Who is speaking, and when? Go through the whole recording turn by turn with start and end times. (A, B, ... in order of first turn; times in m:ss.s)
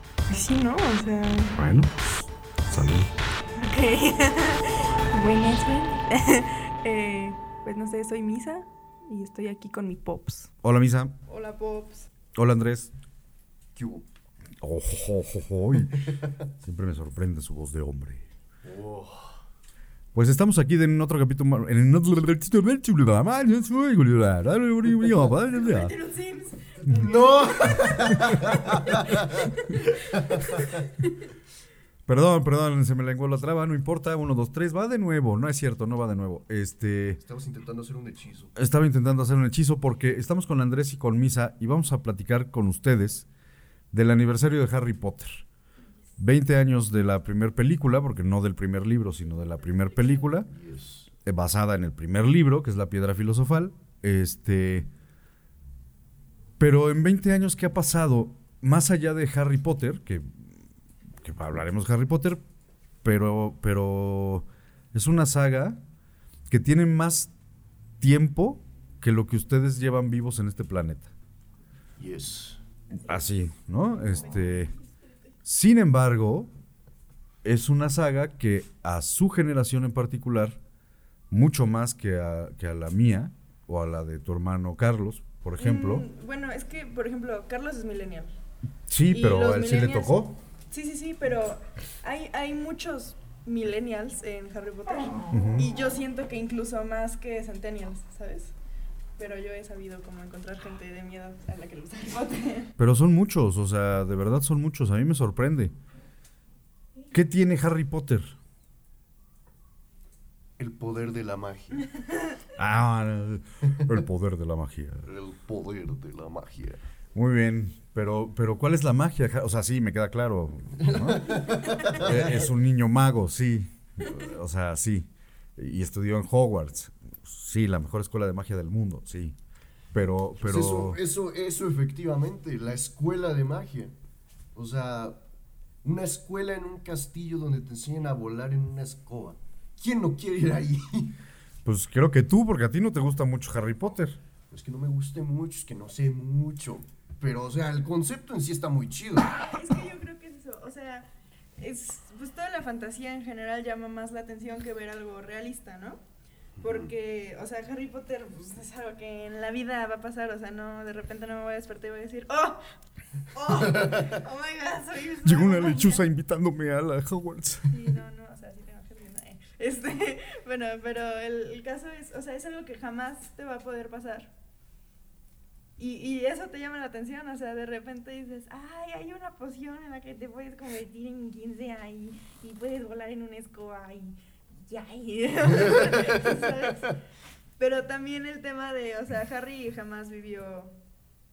0:00.3-0:01.6 A
0:01.6-0:02.0 B
0:02.7-0:03.1 B
0:03.6-0:10.5 A
0:10.6-0:11.2 B
0:11.3-0:12.1 A
0:12.3-0:12.9 B
0:13.7-0:14.0 C
0:14.6-0:18.3 B
0:18.6-0:19.4 C
0:20.1-0:25.9 B
0:25.5-0:31.1 A
0:27.0-0:29.4 C
0:30.0-0:30.8 C
0:32.1-0:37.2 B
0:37.2-0:38.5 C
0:38.6-0:43.3 B
0:43.9-0:45.4 B
0:46.2-0:50.5 B
0:50.5-0:51.1 C
0:51.2-0:54.9 B
0:56.6-1:00.5 B
1:01.2-1:02.4 B
1:03.0-1:05.8 B
1:06.5-1:07.3 B
1:08.0-1:11.1 B
1:12.0-1:12.6 C
1:13.0-1:14.7 B
1:14.3-1:15.1 A
1:15.4-1:16.5 B
1:17.4-1:20.6 B
1:21.3-1:26.0 B
1:25.6-1:28.3 A
1:28.9-1:30.3 B
1:29.1-1:38.5 A
1:35.3-1:35.6 B
1:39.2-1:42.7 A
1:42.8-1:45.7 B
1:47.1-1:48.4 B
1:50.6-1:51.9 C
1:52.6-1:55.0 B
1:55.0-1:56.8 C
1:57.1-2:09.4 B
2:00.8-2:02.5 C
2:09.9-2:11.0 B
2:10.4-2:13.9 C
2:14.5-2:15.2 C
2:15.8-2:21.2 C
2:21.6-2:24.2 B
2:24.5-2:29.6 C
2:29.3-2:36.0 A
2:36.6-2:36.9 C
2:36.6-2:42.6 A
2:43.3-2:46.0 A
2:45.2-2:47.9 B
2:47.7-2:54.3 A
2:55.8-3:07.0 A
3:05.8-3:06.3 C
3:07.6-3:10.8 A